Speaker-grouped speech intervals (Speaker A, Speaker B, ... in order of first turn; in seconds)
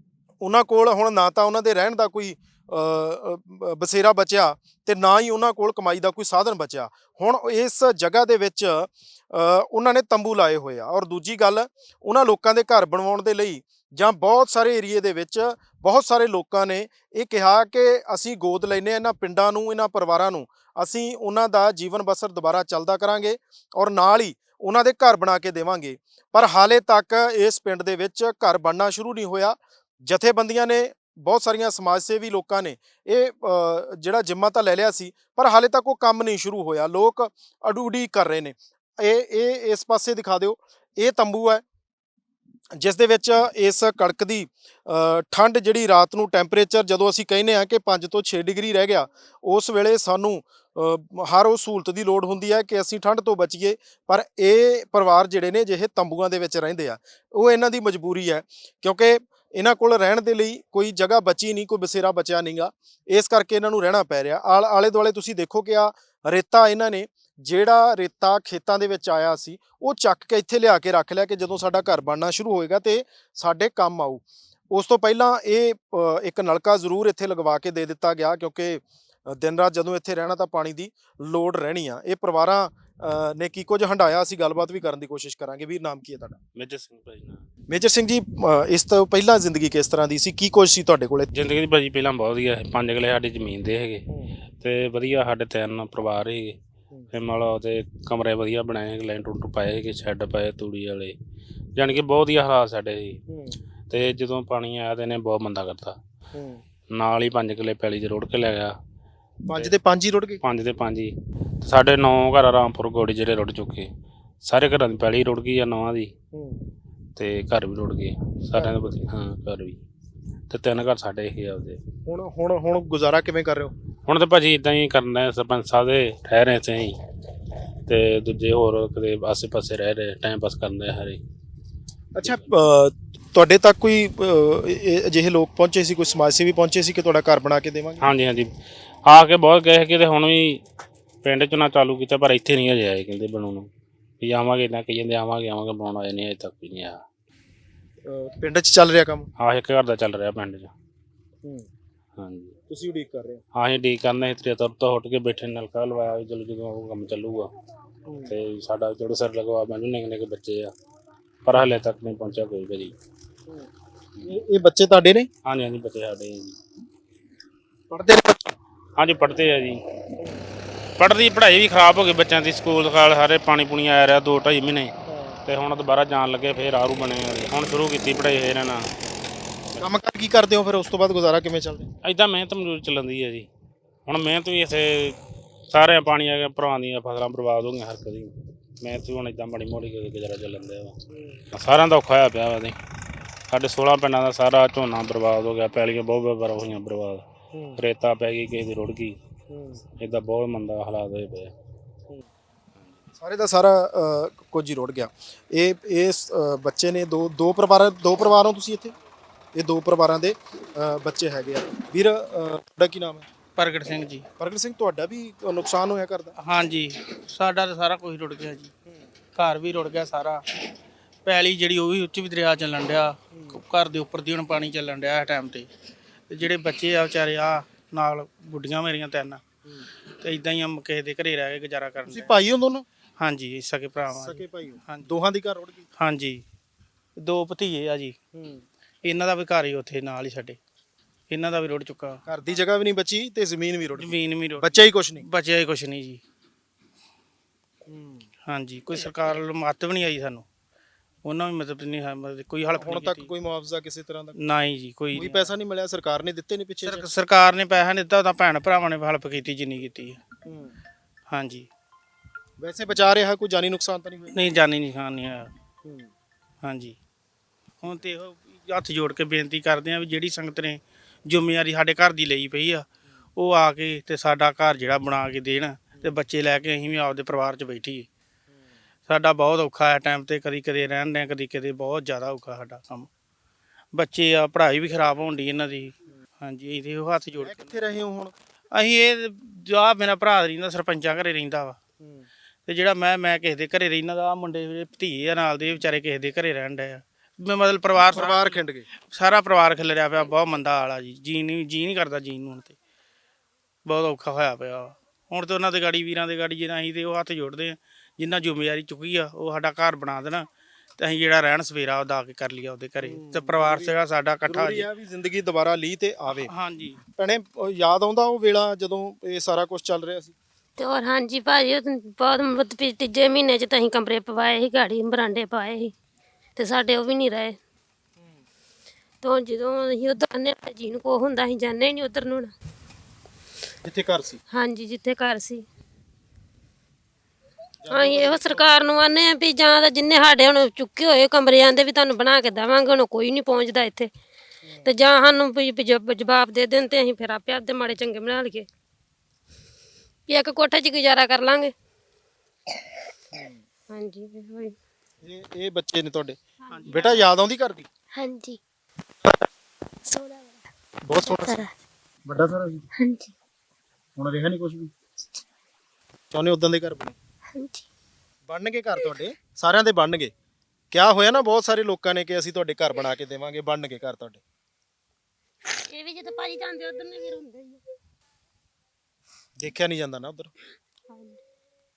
Speaker A: 0.4-41.6, 42.8-86.4, 87.7-91.3, 94.1-94.4, 103.3-103.6, 106.3-106.6, 109.5-110.4, 116.3-116.6, 122.1-123.7, 132.2-138.1, 148.1-149.3, 152.7-153.4, 158.1-158.3, 164.2-165.3, 167.9-168.5, 175.1-175.4, 179.8-181.9, 191.1-191.4, 197.5-197.8, 199.5-199.8, 203.2-208.9, 209.6-213.3, 214.4-216.3, 232.0-232.8, 234.1-235.8, 238.3-238.6, 242.3-245.2, 247.9-248.3, 252.8-254.4, 255.2-257.1, 260.5-260.8, 262.6-264.4, 265.8-266.1, 287.4-288.3, 292.0-292.3, 298.1-298.9, 313.0-313.9, 314.5-316.5, 317.2-320.4, 333.8-334.4, 337.8-338.9, 344.6-344.9, 353.3-353.6, 355.2-356.4, 356.9-357.9, 361.1-361.6, 362.3-362.9, 364.2-364.9, 366.3-367.1, 368.5-370.3, 370.9-374.4, 379.6-380.5
Speaker B: 86.6-87.4, 91.3-94.1, 94.6-96.6, 97.1-101.2, 101.8-103.2, 103.9-106.0, 107.0-108.7, 110.4-113.9, 114.4-116.1, 117.2-119.8, 120.5-121.8, 124.1-127.0, 127.9-131.2, 138.0-138.5, 139.1-140.6, 141.2-143.7, 144.2-147.0, 149.4-150.7, 152.2-152.6, 153.6-157.5, 158.3-160.7, 161.4-162.9, 165.5-166.6, 169.0-169.8, 171.0-174.9, 175.5-178.9, 182.0-183.5, 184.1-185.2, 185.7-190.9, 191.5-192.8, 193.5-197.2, 197.8-199.2, 200.0-201.5
Speaker C: 213.6-214.3, 216.4-218.7, 219.4-220.4, 221.2-225.7, 226.3-229.4, 230.2-232.3, 233.2-235.1, 236.0-236.4, 237.2-238.2, 239.1-240.6, 241.3-242.2, 244.0-246.2, 248.5-250.5, 251.2-253.3, 254.4-255.5, 256.8-260.2, 261.3-261.7, 264.3-265.5, 266.6-267.0, 267.8-278.1, 279.1-283.1, 283.9-287.8, 288.7-291.8, 292.7-302.8, 303.9-310.5, 311.0-314.9, 316.3-317.0, 356.7-357.2
Speaker D: 320.8-325.9, 326.6-327.6, 329.2-332.5, 334.5-335.7, 337.9-344.1, 344.8-348.7, 350.3-351.7, 353.9-354.7, 356.7-357.1, 375.7-377.8, 381.1-381.4
Speaker E: 358.1-358.6, 360.1-360.6, 361.1-361.7, 363.0-363.3